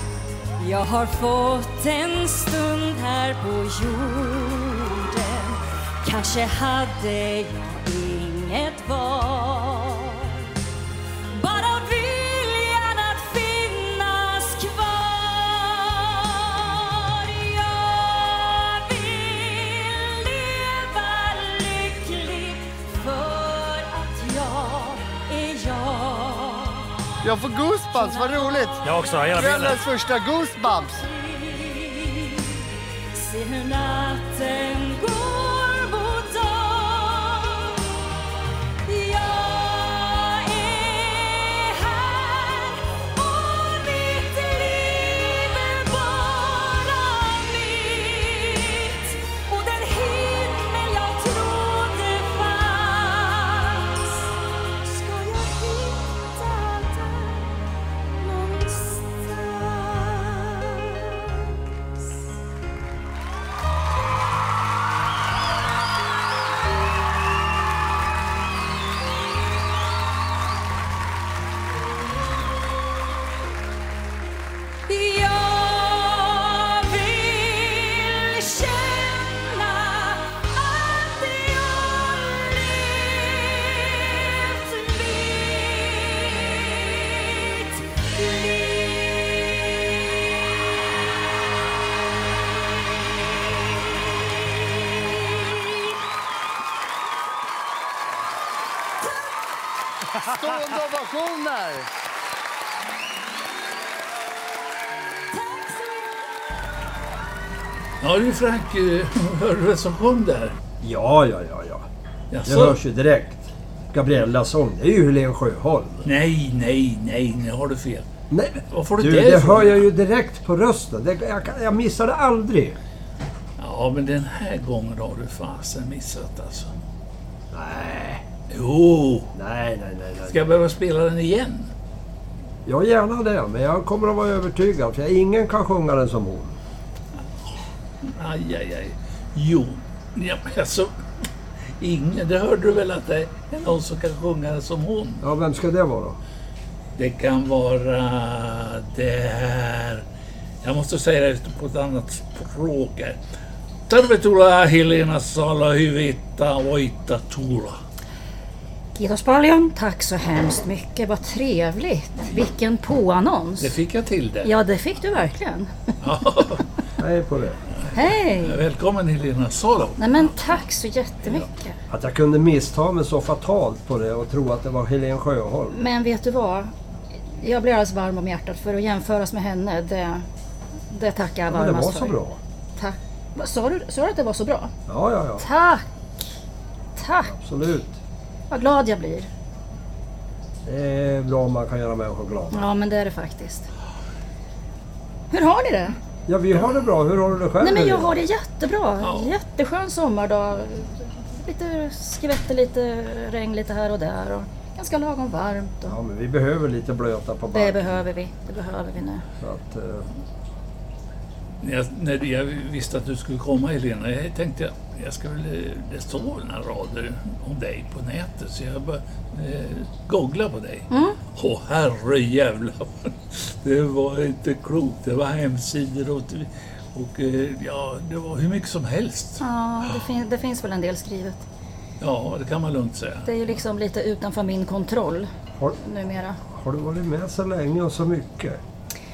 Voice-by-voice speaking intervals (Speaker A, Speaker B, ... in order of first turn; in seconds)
Speaker A: 0.6-10.4, 11.3-26.9, 28.0-28.4, 31.0-37.8, 38.8-62.0, 74.9-90.2, 95.4-95.7
Speaker B: 27.2-31.0, 100.2-101.9
Speaker C: 28.8-29.7, 108.0-110.5, 112.3-112.8, 116.0-118.1, 118.7-119.8, 123.6-126.8, 128.5-129.3, 130.3-131.7, 138.0-140.9, 141.8-145.2, 147.0-150.0, 150.6-153.2, 153.9-157.8, 163.6-164.5, 166.0-166.7, 167.8-170.5, 199.0-199.3, 211.6-229.4, 232.0-233.3
Speaker D: 110.8-111.9, 112.4-116.1, 118.3-122.8, 127.5-128.2, 129.3-130.4, 132.7-136.6, 145.2-146.2, 167.0-167.6, 171.9-175.8, 181.5-182.4, 184.9-185.4, 187.3-187.9, 190.6-192.7, 196.3-198.1, 205.9-208.0, 209.4-210.1, 236.4-238.6
Speaker E: 158.9-163.7, 164.4-165.9, 167.9-168.6, 170.0-171.8, 175.7-176.7, 177.4-180.2, 180.9-182.2, 182.8-184.7, 185.4-185.9, 186.9-187.3, 188.5-189.3, 192.5-193.7, 195.3-196.0, 197.6-206.0, 207.5-209.2, 220.9-221.2, 229.4-231.4, 233.2-236.4